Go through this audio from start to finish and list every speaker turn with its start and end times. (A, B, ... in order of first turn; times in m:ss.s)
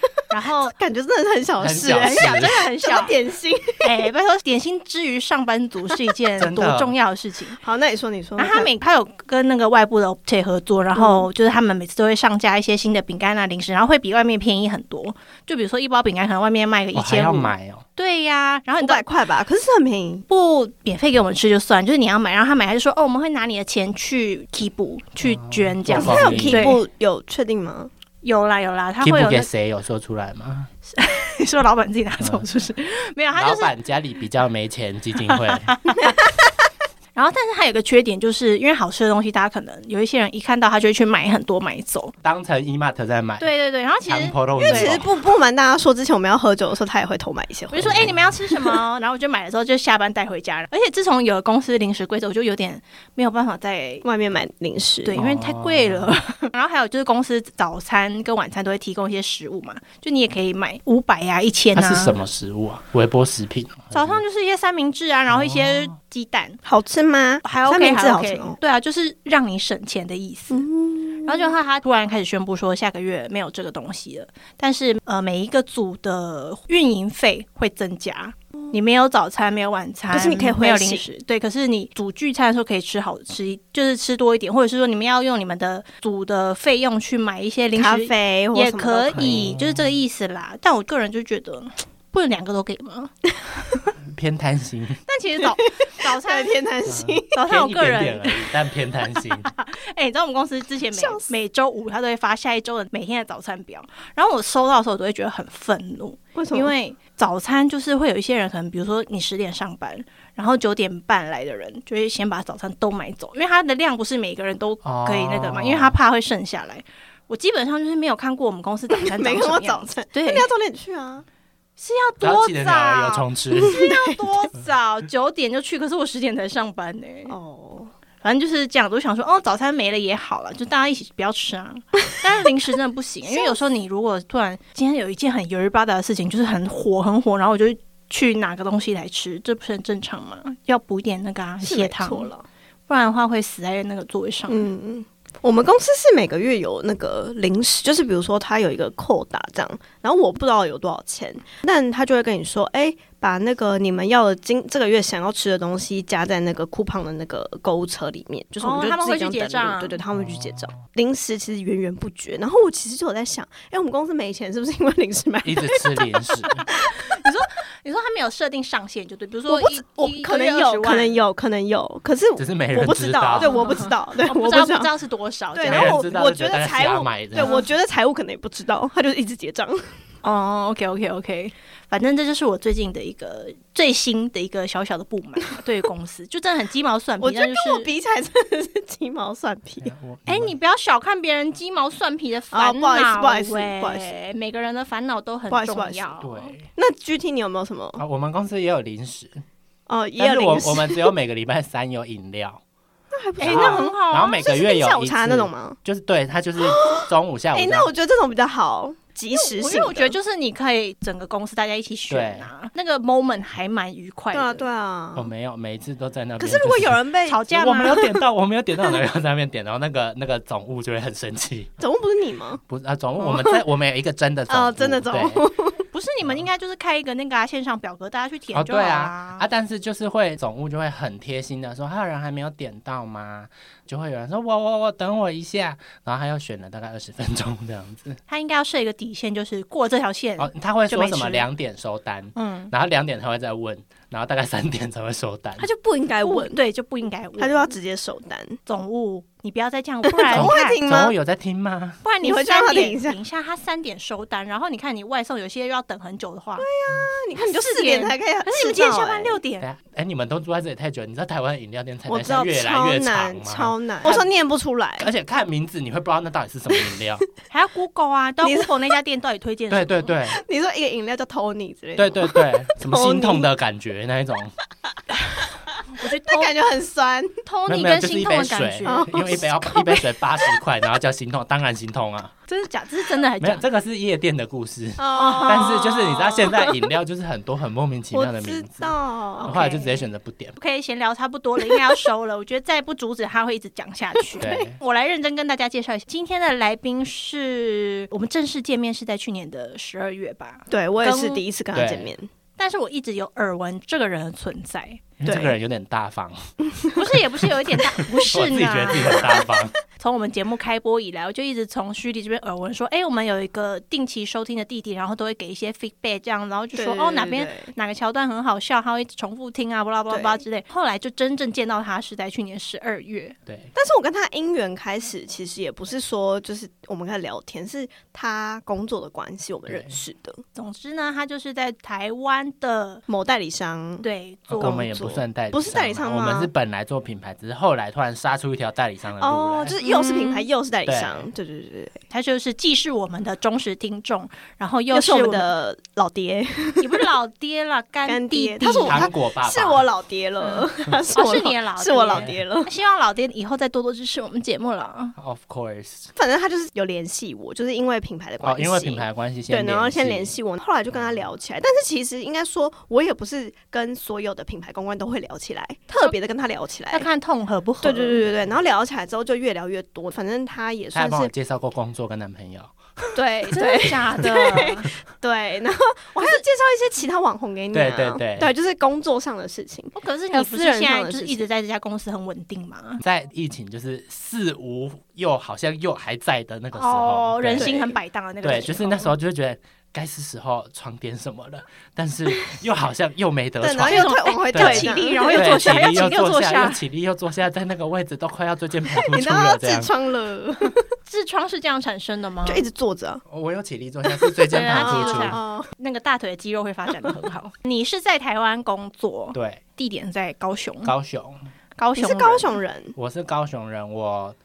0:00.3-0:00.7 A
0:00.7-0:03.9 B
0:01.6-0:02.6 C
0:01.9-0:03.1 A
0:03.8-0:07.6 A
0:06.4-0:06.9 C
0:07.6-0:08.7 B
0:08.4-0:19.0 A
0:10.9-0:11.3 B
0:16.9-0:17.8 C
0:18.8-0:20.2 B
0:20.3-0:26.8 A
0:25.2-0:26.8 C
0:25.9-0:27.9 B
0:28.2-0:29.5 A
0:29.0-0:30.7 C
0:30.9-0:33.7 A
0:33.3-0:35.7 C
0:35.3-0:36.2 A
0:37.1-0:42.1 A
0:42.2-0:43.5 C
0:43.4-0:45.0 A
0:44.0-0:45.1 C
0:44.6-0:48.1 B
0:47.7-0:54.0 A
0:47.8-0:48.2 C
0:54.0-0:55.2 B
0:55.0-1:02.2 A
0:55.2-0:56.1 C
1:01.7-1:04.2 C
1:03.9-1:06.6 A
1:05.3-1:05.9 C
1:06.6-1:08.6 B
1:07.4-1:10.7 A
1:10.5-1:11.5 B
1:11.2-1:33.1 A
1:20.1-1:21.0 B
1:27.7-1:29.5 B
1:29.1-1:30.0 C
1:34.0-1:35.0 C
1:35.0-1:36.6 A
1:36.0-1:37.4 B
1:36.9-1:39.5 C
1:37.3-1:38.5 A
1:39.4-2:00.5 A
1:40.9-1:41.3 B
1:46.3-1:46.7 B
1:54.8-1:56.0 C
1:58.9-2:01.2 B
2:01.8-2:07.3 A
2:02.2-2:03.8 C
2:03.5-2:04.2 B
2:07.3-2:07.9 B
2:08.2-2:22.3 A
2:13.3-2:13.6 B
2:21.6-2:22.4 B
2:22.9-2:24.6 A
2:24.5-2:47.3 B
2:38.6-2:40.0 A
2:40.1-2:40.7 C
2:45.4-2:46.6 C
2:46.4-2:51.2 A
2:49.5-2:54.9 B
2:52.4-2:53.5 C
2:53.4-2:56.1 A
2:55.5-2:59.9 B
2:55.7-2:57.6 C
3:00.2-3:07.9 A
3:07.2-3:09.9 B
3:09.8-3:10.5 C
3:10.2-3:16.5 A
3:12.5-3:14.1 B
3:15.5-3:16.1 B
3:16.2-3:16.6 C
3:16.7-3:18.0 B
3:18.0-3:19.4 C
3:19.9-3:21.1 B
3:20.2-3:22.6 C
3:23.1-3:25.8 B
3:23.4-3:24.4 A
3:23.4-3:27.9 C
3:26.6-3:30.2 B
3:29.3-3:34.6 A
3:32.1-3:32.5 C
3:34.3-3:35.3 B
3:35.2-3:41.7 C
3:36.4-3:38.2 B
3:37.2-3:38.0 A
3:41.8-3:42.6 B
3:42.7-3:45.5 C
3:43.2-3:43.6 B
3:44.5-3:45.8 B
3:45.9-3:49.4 A
3:48.5-3:58.2 C
3:58.3-4:01.5 A
4:00.4-4:05.6 C
4:02.3-4:02.7 A
4:05.6-4:06.6 B
4:06.2-4:07.7 A
4:07.4-4:08.6 B
4:08.6-4:10.8 A
4:10.1-4:11.1 B
4:10.3-4:12.0 C
4:12.0-4:16.6 A
4:12.2-4:13.2 B
4:16.6-4:19.4 B
4:17.4-4:19.7 A
4:19.6-4:24.2 C
4:22.1-4:25.1 B
4:25.0-4:27.3 C
4:27.5-4:30.0 A
4:28.4-4:28.8 B
4:29.7-4:30.4 C
4:30.2-4:33.5 B
4:32.0-4:34.5 C
4:35.9-4:36.5 A
4:36.0-4:37.3 B
4:37.4-4:39.0 A
4:37.7-4:42.3 C
4:38.8-4:40.6 B
4:42.5-4:43.6 A
4:43.4-4:50.6 C
4:45.0-4:46.8 B
4:45.2-4:45.7 A
4:48.1-4:50.0 B
4:49.4-4:49.8 A
4:50.6-5:01.4 A
4:54.4-4:54.8 C
5:00.7-5:02.3 B
5:01.7-5:02.1 C
5:02.6-5:05.0 A
5:05.2-5:06.5 C
5:05.2-5:05.5 B
5:06.7-5:07.0 B
5:06.9-5:09.4 A
5:07.7-5:09.7 C
5:09.1-5:09.7 B
5:10.0-5:23.4 A
5:16.8-5:17.7 B
5:20.1-5:20.4 B
5:23.4-5:23.7 C
5:23.7-5:30.4 B
5:29.7-5:30.0 C
5:30.5-5:33.0 A
5:33.1-5:34.0 B
5:34.0-5:34.8 A
5:34.5-5:39.8 C
5:34.6-5:36.5 B
5:39.2-5:42.0 B
5:39.8-5:40.5 A
5:40.8-5:41.3 C
5:42.1-5:45.5 A
5:44.9-5:47.1 B
5:46.8-5:49.1 A
5:48.0-5:52.7 B
5:48.9-5:49.8 C
5:50.4-5:55.2 A
5:55.2-5:56.1 C
5:56.2-6:07.0 B
5:58.4-6:00.3 C
6:06.9-6:08.2 A
6:07.8-6:11.3 B
6:10.9-6:12.7 C
6:13.1-6:21.4 B
6:13.5-6:14.9 A
6:17.7-6:18.5 C
6:19.9-6:23.0 A
6:23.0-6:39.9 C
6:26.8-6:29.1 A
6:27.5-6:27.8 B
6:33.6-6:35.8 B
6:33.8-6:36.8 A
6:38.9-6:40.8 B
6:41.0-6:42.6 A
6:42.4-6:43.2 B
6:43.3-6:45.4 C
6:44.1-6:45.7 B
6:44.5-6:50.9 A
6:49.3-6:49.6 C
6:50.8-6:51.4 C
6:51.8-6:52.5 A
6:52.0-6:52.9 B
6:52.9-6:54.4 C